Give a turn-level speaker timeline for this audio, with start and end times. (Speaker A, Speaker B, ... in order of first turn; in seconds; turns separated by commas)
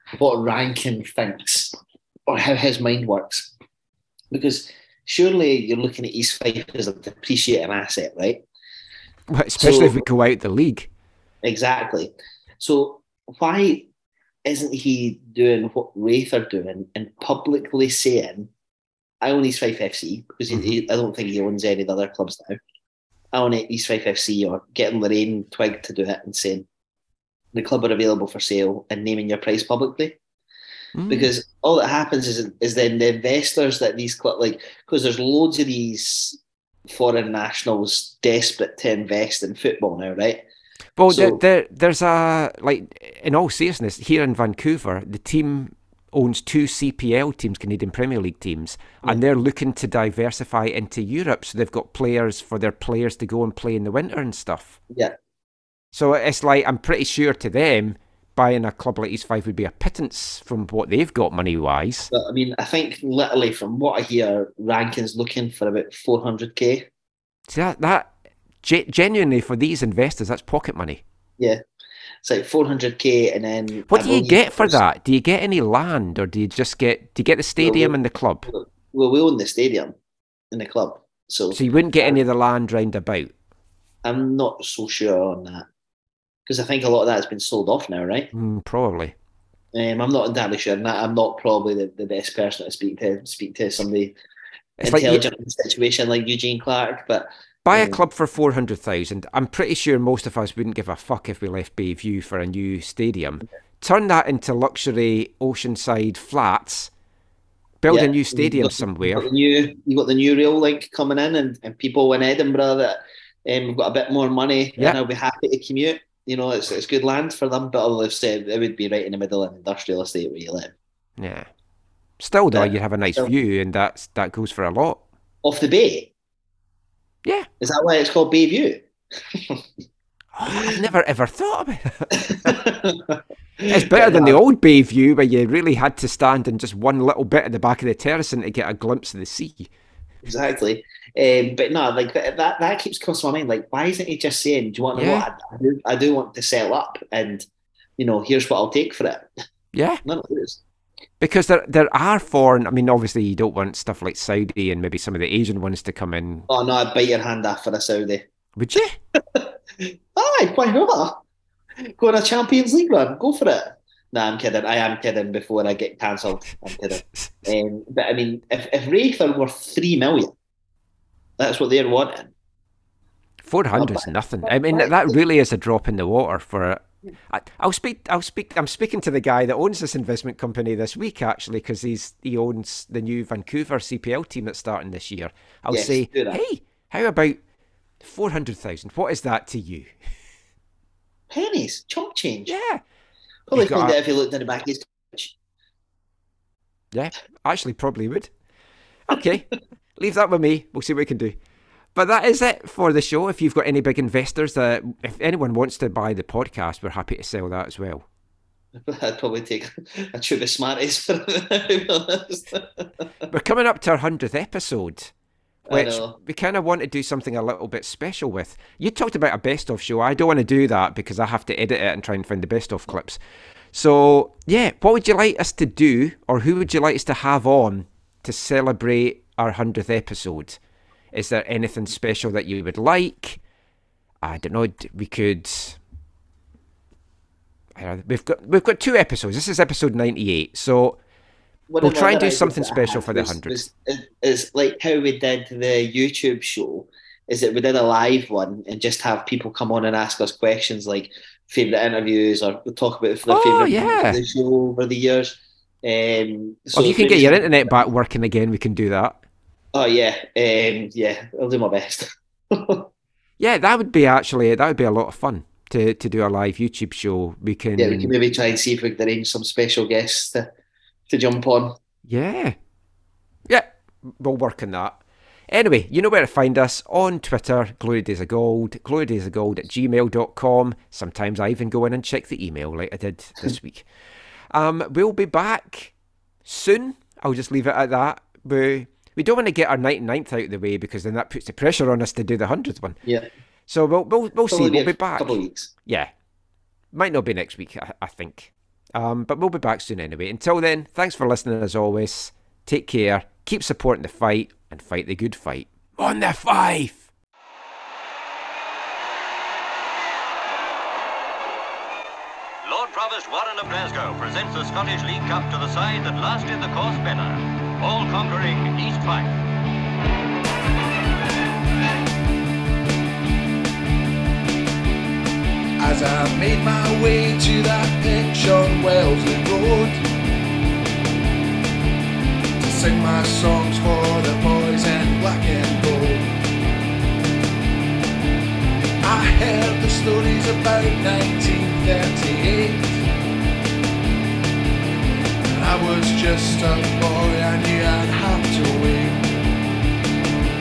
Speaker A: 0.2-3.5, Speaker A: 4.3-8.4, Speaker B: 9.3-10.9, Speaker A: 9.6-10.0, Speaker A: 11.4-13.9, Speaker A: 14.5-18.5, Speaker A: 19.2-22.6, Speaker A: 23.3-26.7, Speaker A: 27.5-30.2, Speaker B: 31.0-31.3, Speaker A: 31.1-36.4, Speaker A: 36.9-40.5, Speaker B: 41.0-54.8, Speaker A: 41.1-41.4, Speaker B: 55.9-62.1, Speaker A: 62.1-66.9, Speaker B: 67.5-68.1, Speaker B: 68.6-71.0, Speaker A: 72.2-74.8, Speaker B: 73.9-78.5, Speaker A: 77.6-79.9, Speaker A: 80.5-82.2, Speaker B: 81.5-83.3, Speaker A: 84.0-85.7, Speaker A: 86.5-88.3, Speaker B: 88.3-89.2, Speaker A: 89.7-94.2, Speaker B: 94.8-95.2, Speaker A: 94.8-98.0, Speaker B: 97.7-106.9, Speaker B: 107.8-109.3, Speaker A: 107.9-120.7, Speaker B: 121.2-121.5, Speaker B: 122.2-125.0, Speaker A: 122.5-123.3, Speaker A: 125.4-126.1, Speaker A: 127.6-129.6, Speaker B: 130.3-132.5, Speaker A: 130.5-130.8, Speaker A: 132.2-134.4, Speaker B: 133.7-139.7, Speaker A: 140.2-147.5, Speaker B: 144.9-145.3, Speaker A: 148.0-149.3, Speaker B: 149.7-150.0, Speaker A: 150.1-150.6, Speaker B: 151.2-156.5, Speaker A: 156.5-158.2, Speaker B: 158.6-159.0, Speaker A: 159.2-161.2, Speaker A: 161.9-170.3, Speaker B: 167.0-167.5, Speaker A: 171.4-172.3, Speaker B: 173.4-187.4, Speaker A: 173.8-175.2, Speaker A: 185.7-186.4, Speaker B: 188.0-189.9, Speaker A: 191.3-192.5, Speaker B: 192.5-192.8, Speaker A: 193.5-195.3, Speaker B: 193.5-194.0, Speaker B: 196.9-198.3, Speaker B: 199.1-201.4, Speaker B: 201.9-208.1, Speaker A: 208.8-212.9, Speaker B: 213.3-215.1, Speaker A: 215.7-216.2, Speaker B: 215.7-223.2, Speaker B: 223.7-230.6, Speaker B: 231.1-233.4, Speaker B: 234.2-235.8, Speaker B: 237.8-241.0, Speaker A: 241.7-257.8, Speaker B: 241.8-243.7, Speaker B: 253.3-254.2, Speaker B: 256.7-259.2, Speaker A: 259.7-262.9, Speaker B: 263.4-268.1, Speaker A: 267.8-270.5, Speaker A: 271.1-271.8, Speaker B: 272.1-272.6, Speaker B: 273.5-283.9, Speaker B: 284.5-285.9, Speaker B: 286.4-293.0, Speaker B: 293.7-296.1, Speaker A: 294.5-295.7, Speaker B: 296.9-307.1, Speaker C: 312.6-319.4, Speaker D: 325.8-330.0, Speaker D: 332.6-336.3, Speaker D: 339.0-343.0, Speaker D: 345.5-349.3